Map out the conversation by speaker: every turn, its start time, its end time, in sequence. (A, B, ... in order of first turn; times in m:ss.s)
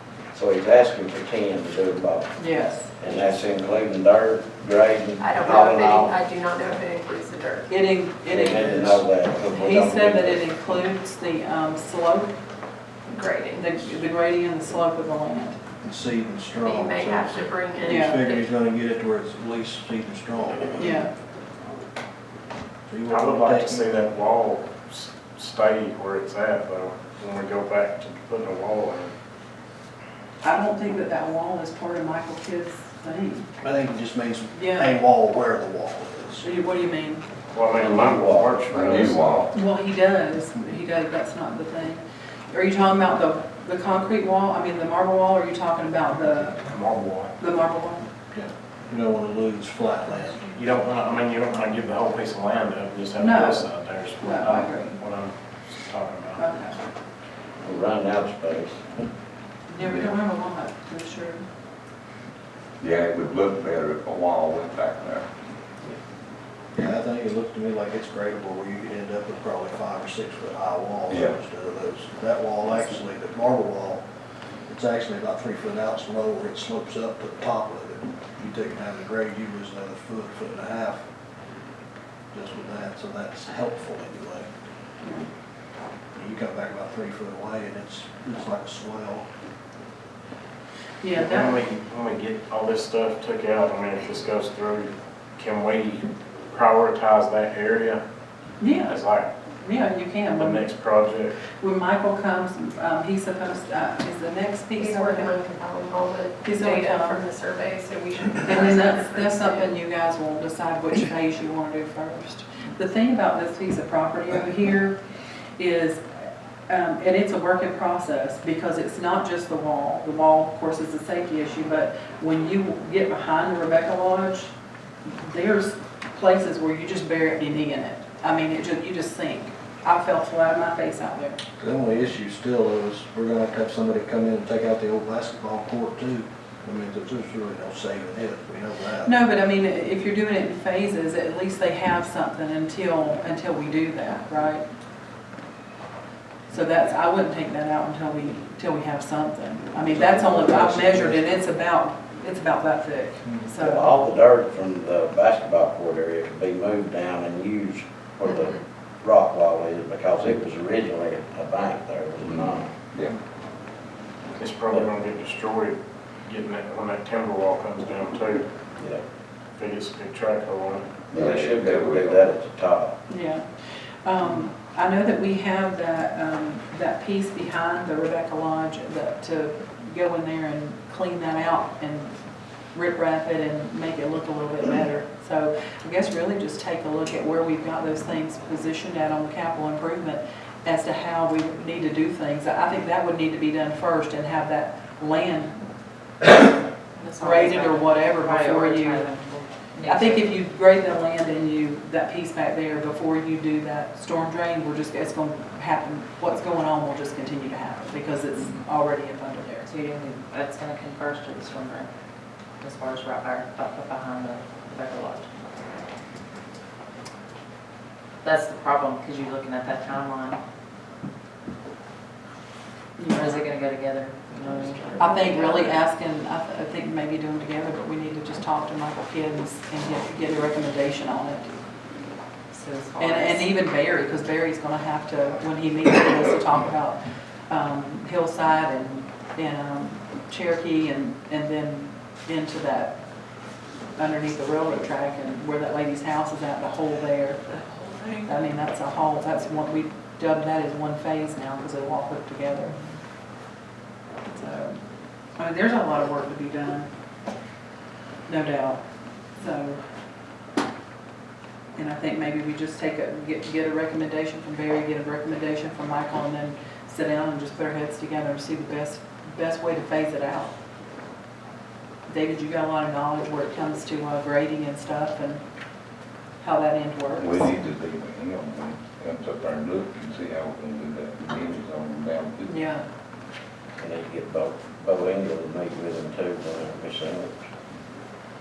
0:00.3-0:02.3 A
0:02.4-0:02.9 B
0:03.0-0:06.1 A
0:05.2-0:07.7 C
0:07.7-0:12.3 B
0:08.3-0:10.4 A
0:13.1-0:14.0 C
0:13.6-0:15.6 B
0:15.8-0:21.0 D
0:16.6-0:18.4 C
0:17.8-0:18.2 B
0:20.8-0:21.1 B
0:22.9-0:24.0 D
0:23.1-0:29.1 E
0:30.4-0:33.5 B
0:33.6-0:36.4 D
0:34.5-0:34.9 B
0:36.4-0:37.2 B
0:37.5-0:39.4 E
0:37.7-0:38.6 A
0:38.7-0:39.5 F
0:39.5-0:46.6 B
0:46.7-0:47.3 E
0:47.4-0:48.0 B
0:48.3-0:50.6 D
0:50.5-0:56.4 E
0:53.2-0:53.7 B
0:54.2-0:55.0 B
0:56.4-0:56.8 B
0:57.6-0:58.9 A
0:59.7-1:01.4 B
1:02.8-1:05.2 F
1:06.7-1:14.0 D
1:11.1-1:11.3 F
1:14.7-1:21.0 D
1:22.3-1:24.5 D
1:25.0-1:25.3 B
1:26.2-1:29.2 D
1:31.0-1:31.6 B
1:31.2-1:38.0 E
1:38.6-1:39.0 B
1:38.9-1:39.3 E
1:39.6-1:40.7 B
1:40.4-1:41.3 E
1:41.5-1:45.3 B
1:44.8-1:49.7 C
1:46.4-1:47.2 B
1:48.4-1:55.0 B
1:55.6-2:04.5 B
2:05.0-2:11.4 B
2:11.6-2:19.1 D
2:19.0-2:24.6 B
2:26.5-2:33.9 B
2:29.9-2:31.1 D
2:33.6-2:42.7 A
2:38.3-2:38.6 C
2:42.2-2:43.1 F
2:44.3-2:48.5 E
2:48.8-2:49.0 A
2:49.6-2:50.8 E
2:51.1-2:52.4 F
2:51.1-2:52.9 A
2:53.1-2:53.5 B
2:54.0-3:02.2 B
3:02.7-3:15.6 B
3:17.0-3:20.4 G
3:17.2-3:19.1 B
3:19.8-3:29.6 B
3:29.6-3:31.9 G
3:32.6-3:35.5 G
3:38.2-3:40.4 G
3:43.0-3:43.4 B
3:43.1-3:45.8 G
3:45.0-3:51.5 B
3:52.5-3:53.5 G
3:53.0-4:03.0 B
4:04.0-4:07.4 B
4:07.6-4:08.2 G
4:08.2-4:12.8 B
4:14.2-4:14.8 B
4:15.4-4:16.9 B
4:18.3-4:18.8 B
4:19.4-4:19.8 B
4:21.7-4:30.5 B
4:32.1-4:35.4 B
4:36.4-4:37.4 B
4:37.2-4:42.5 F
4:42.4-4:42.8 B
4:43.8-4:47.4 A